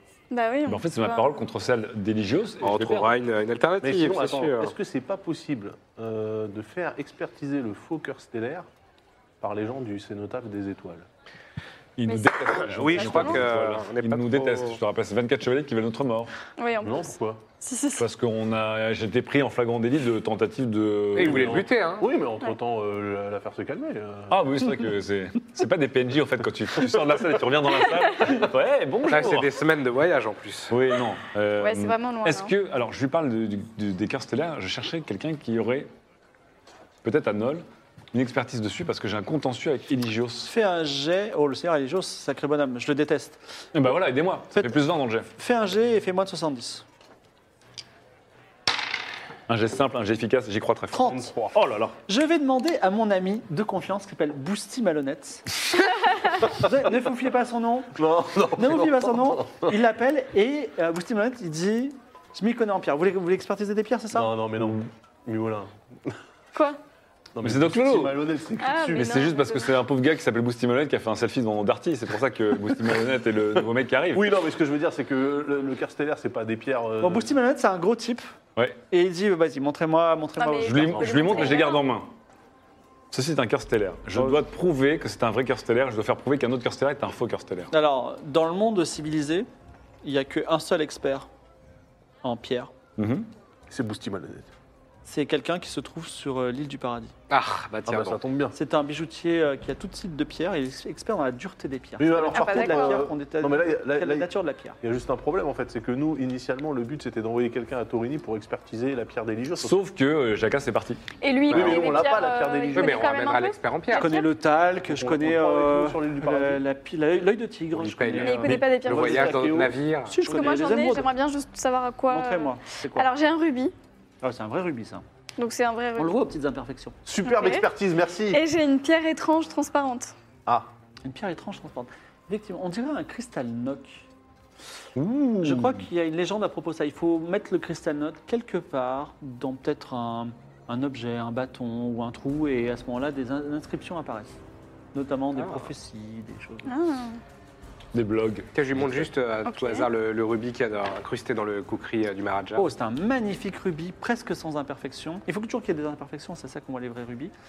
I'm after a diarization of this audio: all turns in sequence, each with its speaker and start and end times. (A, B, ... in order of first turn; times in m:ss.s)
0:00.3-0:01.4 A
0:00.7-0:03.1 B
0:02.6-0:04.7 C
0:03.8-0:08.7 D
0:09.4-0:11.1 D
0:12.0-0:16.3 B
0:12.1-0:13.5 A
0:12.5-0:14.8 C
0:16.6-0:18.1 A
0:16.8-0:17.4 D
0:18.0-0:21.7 B
0:21.2-0:22.1 C
0:21.2-0:24.4 D
0:24.3-0:29.6 B
0:29.1-0:30.7 C
0:30.7-0:35.9 B
0:31.6-0:32.5 A
0:37.0-0:40.5 B
0:40.4-0:43.4 E
0:43.7-0:45.3 B
0:44.5-0:44.8 E
0:45.4-0:46.8 E
0:49.5-0:52.0 B
0:50.9-0:51.3 E
0:51.0-0:51.6 D
0:52.1-0:55.5 E
0:56.4-0:58.0 E
0:58.0-0:59.8 D
0:58.6-1:04.3 E
1:04.1-1:06.2 D
1:07.4-1:09.1 D
1:07.4-1:08.2 B
1:08.6-1:09.8 A
1:08.9-1:14.3 B
1:14.1-1:17.3 D
1:17.0-1:18.3 E
1:18.9-1:21.6 E
1:20.4-1:21.9 A
1:20.6-1:22.1 B
1:23.1-1:27.7 B
1:27.7-1:29.5 E
1:30.0-1:31.3 E
1:32.2-1:32.7 E
1:33.0-1:33.3 B
1:33.7-1:34.5 D
1:35.0-1:37.1 E
1:37.3-1:38.2 C
1:37.9-1:38.6 D
1:38.5-1:44.8 E
1:42.0-1:44.3 D
1:42.3-1:43.1 A
1:44.8-1:49.8 D
1:49.6-1:51.0 B
1:51.2-1:54.3 A
1:51.5-1:53.1 D
1:52.7-1:54.1 C
1:54.0-1:59.5 E
1:54.9-1:56.6 D
1:57.8-2:00.2 C
1:58.2-1:59.4 A
1:58.9-1:59.7 D
2:00.1-2:01.1 E
2:00.2-2:03.7 A
2:02.1-2:03.1 E
2:04.2-2:05.0 E
2:05.4-2:06.2 A
2:06.0-2:07.0 E
2:07.1-2:08.4 D
2:07.2-2:07.7 A
2:08.3-2:10.1 A
2:11.0-2:14.0 E
2:15.0-2:15.7 B
2:15.4-2:24.4 E
2:24.9-2:26.7 E
2:25.4-2:25.7 C
2:26.7-2:27.2 A
2:27.9-2:29.0 B
2:28.6-2:32.7 C
2:29.5-2:29.9 A
2:32.6-2:37.3 E